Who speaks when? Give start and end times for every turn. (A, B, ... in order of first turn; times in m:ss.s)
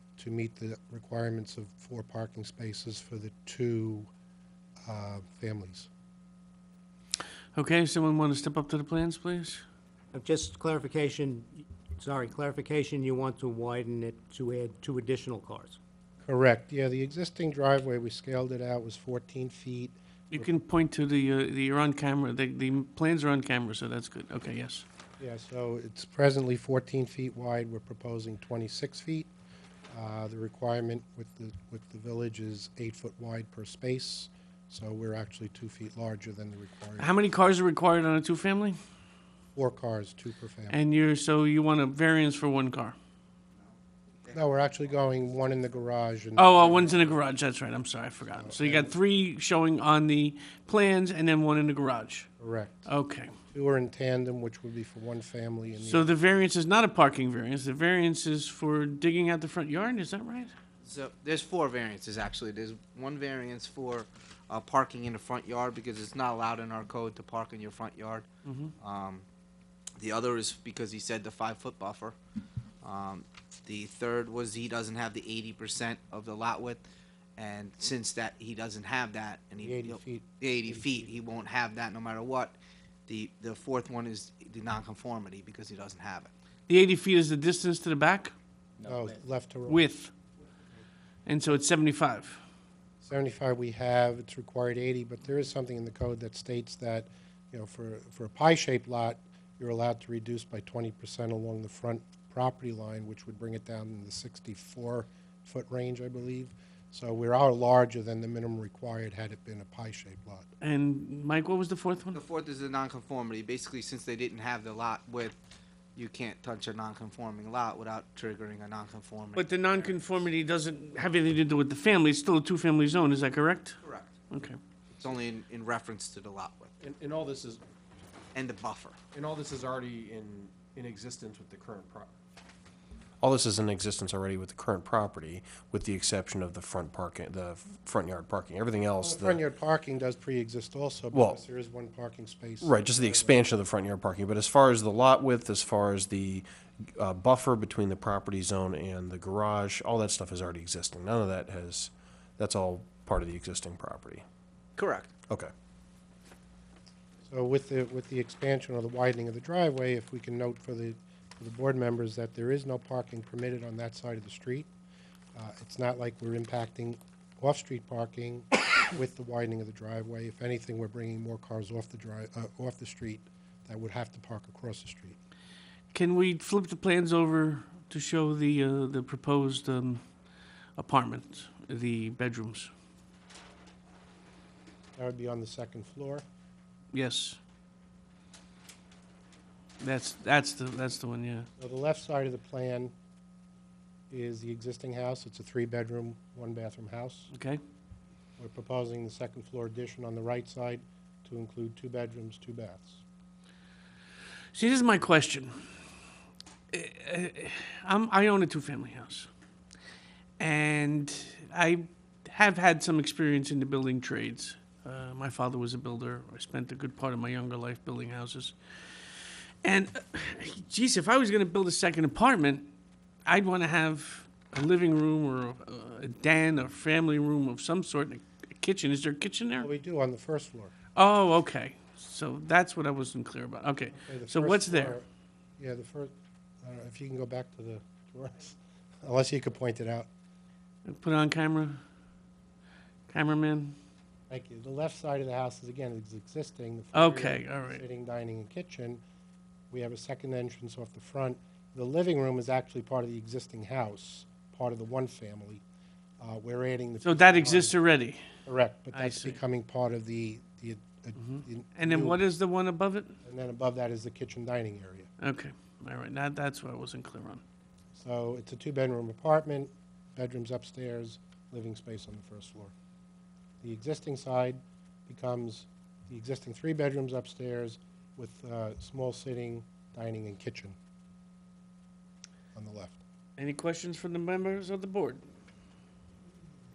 0:00.2-0:04.1 A
0:04.8-0:05.9 A
0:07.6-0:09.6 B
0:10.1-0:15.8 C
0:16.2-0:20.5 A
0:20.3-0:24.8 B
0:25.2-0:29.3 A
0:29.9-0:37.1 A
0:37.0-0:38.8 B
0:39.6-0:40.8 A
0:40.7-0:43.0 B
0:43.6-0:44.4 D
0:44.3-0:47.0 A
0:46.4-0:52.3 B
0:48.4-0:48.9 A
0:52.4-0:52.9 A
0:52.9-0:53.3 B
0:53.5-0:56.2 A
0:55.8-1:00.5 B
1:00.8-1:08.3 D
1:08.4-1:08.7 B
1:08.8-1:09.2 D
1:10.0-1:12.2 D
1:12.8-1:16.8 D
1:17.4-1:26.3 D
1:19.6-1:21.3 A
1:26.7-1:28.3 B
1:28.8-1:29.8 A
1:29.7-1:30.1 B
1:31.3-1:32.4 B
1:33.0-1:50.5 A
1:50.6-1:52.2 B
1:52.1-1:55.4 D
1:56.0-2:00.2 D
1:59.4-2:03.8 B
2:03.8-2:04.1 D
2:04.3-2:04.6 B
2:05.0-2:06.8 D
2:06.8-2:07.6 E
2:08.3-2:09.0 D
2:09.1-2:12.1 E
2:13.2-2:19.4 E
2:19.0-2:23.5 A
2:21.1-2:21.4 E
2:22.6-2:34.2 E
2:34.8-2:35.1 D
2:37.3-2:44.7 A
2:45.4-2:55.2 A
2:55.9-3:00.0 B
3:00.8-3:02.7 B
3:05.0-3:06.2 A
3:06.9-3:07.4 B
3:09.8-3:11.5 B
3:11.6-3:12.9 A
3:14.1-3:17.3 A
3:17.3-3:17.6 B
3:18.4-3:23.0 A
3:24.5-3:25.7 B
3:26.7-3:29.3 B
3:30.4-3:38.6 B
3:39.6-3:42.7 B
3:43.3-3:49.7 B
3:49.6-3:50.7 A
3:51.0-3:55.0 B
3:53.9-3:55.1 A
3:55.6-4:00.1 A
4:00.8-4:01.8 B
4:03.1-4:03.8 B
4:04.3-4:09.0 A
4:06.9-4:07.8 B
4:09.7-4:15.6 A
4:16.2-4:17.8 A
4:17.0-4:18.2 B
4:18.5-4:22.2 A
4:18.9-4:19.4 B
4:21.2-4:23.1 B
4:23.2-4:25.1 A
4:25.2-4:27.4 B
4:28.0-4:32.7 A
4:33.6-4:40.8 A
4:42.5-4:43.0 A
4:43.4-4:45.2 B